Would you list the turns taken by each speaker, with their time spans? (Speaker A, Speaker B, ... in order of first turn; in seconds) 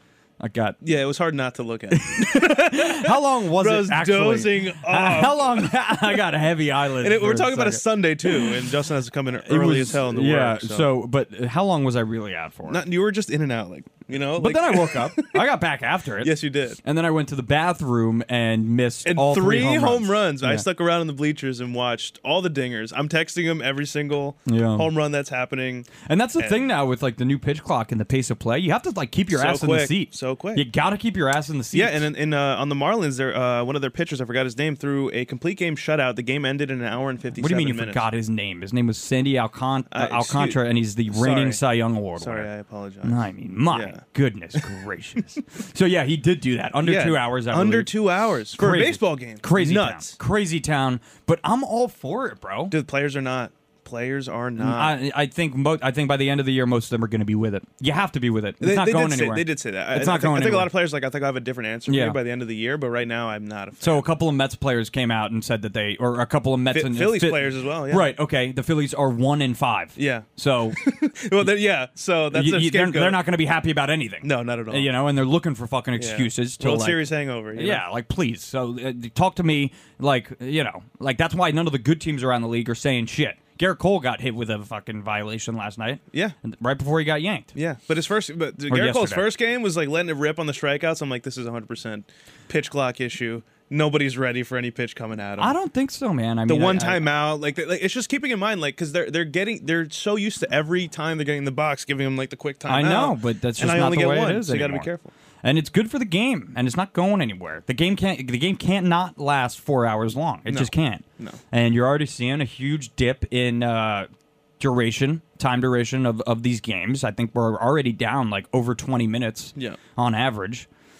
Speaker A: 0.4-0.8, 1.9-8.5, 9.4-12.8, 14.3-20.6, 24.4-24.9, 26.0-32.1, 37.4-42.5, 43.0-47.9, 48.5-52.8, 54.6-60.7, 61.9-62.2, 63.8-70.8, 72.3-87.5, 88.7-89.3, 95.4-97.0, 102.7-104.9, 105.4-114.1, 114.6-120.7
Speaker B: 0.8-6.2, 7.0-10.9, 12.7-15.4, 16.2-16.8, 19.0-26.7, 29.3-30.6, 31.7-38.0, 39.9-41.6, 42.2-44.0, 46.8-50.1, 52.7-55.0, 58.6-64.1, 66.7-68.1, 70.0-73.2, 74.2-74.9, 76.0-77.8, 87.5-95.5, 96.5-105.1, 110.5-111.4